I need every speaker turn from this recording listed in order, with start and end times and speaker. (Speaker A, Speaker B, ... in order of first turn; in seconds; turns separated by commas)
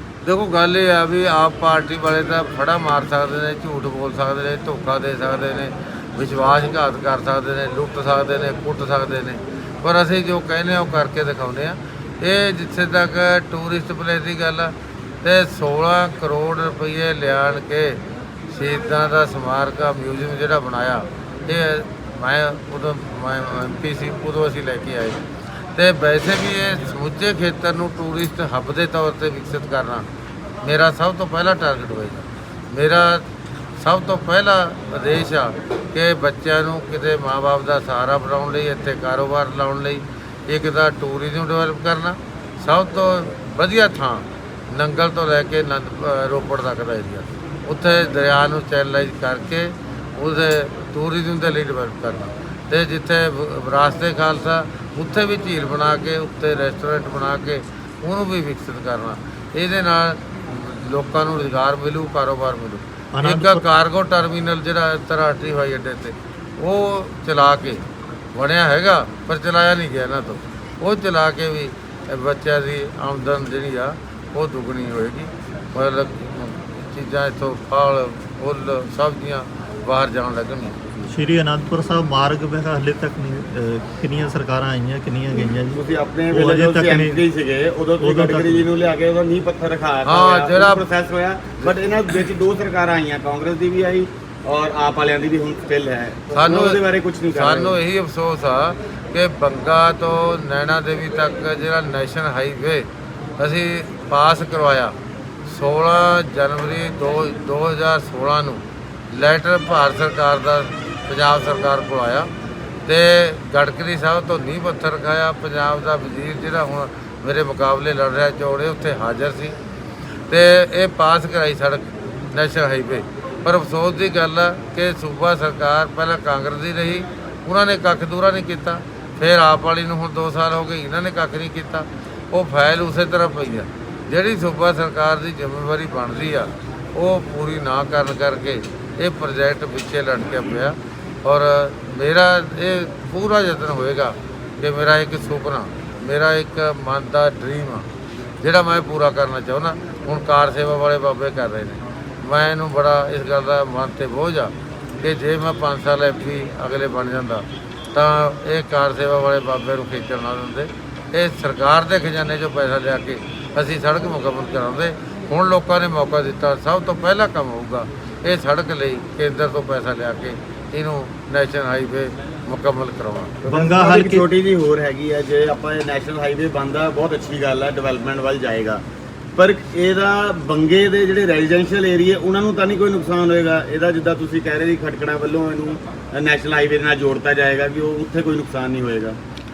Speaker A: 0.2-25.2, Speaker A: 25.7-30.1, Speaker A: 30.6-33.2, Speaker A: 33.8-80.8, Speaker B: 63.1-63.6, Speaker B: 81.1-87.2, Speaker C: 85.7-97.8, Speaker B: 88.0-88.7, Speaker A: 90.0-90.9, Speaker A: 96.3-96.8, Speaker A: 97.3-102.9, Speaker A: 103.4-104.9, Speaker A: 105.5-112.3, Speaker A: 112.8-119.6, Speaker A: 120.3-147.9, Speaker A: 148.4-173.3, Speaker C: 173.4-178.8, Speaker B: 173.5-174.2, Speaker C: 179.3-189.2